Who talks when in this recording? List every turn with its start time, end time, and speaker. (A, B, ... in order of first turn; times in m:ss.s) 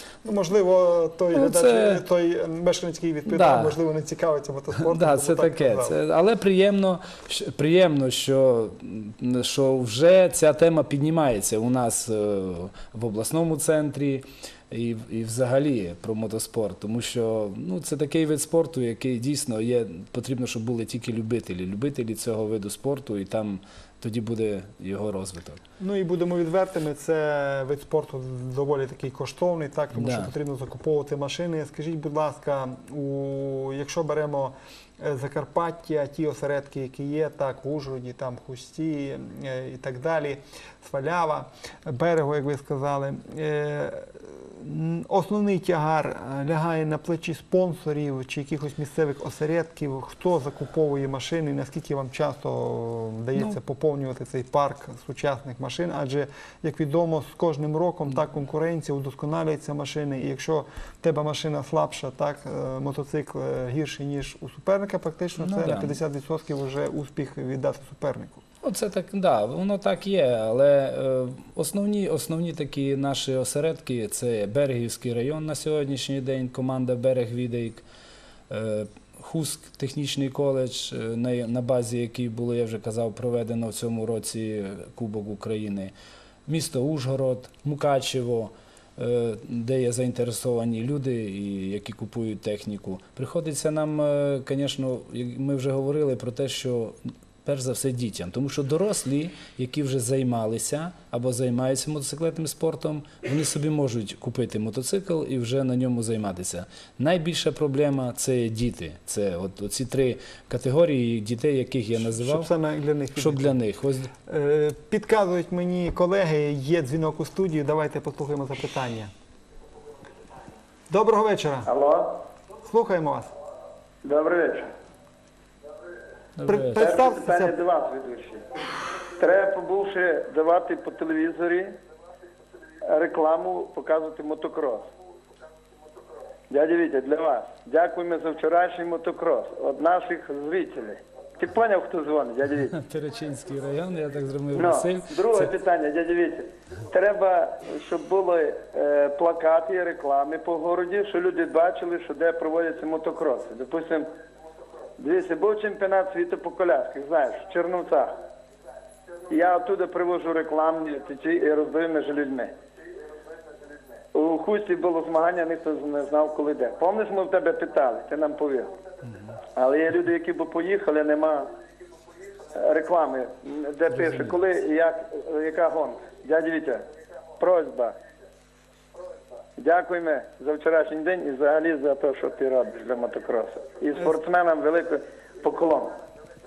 0:00.2-0:05.9 A
0:01.3-0:02.0 B
0:03.2-0:03.8 B
0:04.8-0:25.6 B
0:25.8-1:08.4 A
0:29.9-0:30.3 B
1:05.4-1:06.0 B
1:08.6-1:17.8 B
1:18.5-1:25.9 B
1:26.5-1:52.5 B
1:52.0-1:53.6 A
1:53.1-1:54.1 B
1:54.3-1:59.1 A
2:00.9-2:01.7 A
2:01.6-2:02.2 C
2:02.6-2:03.3 A
2:04.0-2:04.7 C
2:06.4-2:06.9 B
2:06.4-2:07.5 A
2:06.7-2:08.4 C
2:09.2-2:11.7 C
2:12.9-2:14.8 C
2:16.5-2:22.7 C
2:22.7-2:25.5 B
2:24.5-2:34.1 C
2:35.0-2:38.1 C
2:39.3-2:42.5 C
2:44.1-2:48.7 C
2:49.5-2:51.5 C
2:52.5-2:56.8 C
2:57.4-2:57.9 C
2:59.6-3:05.9 C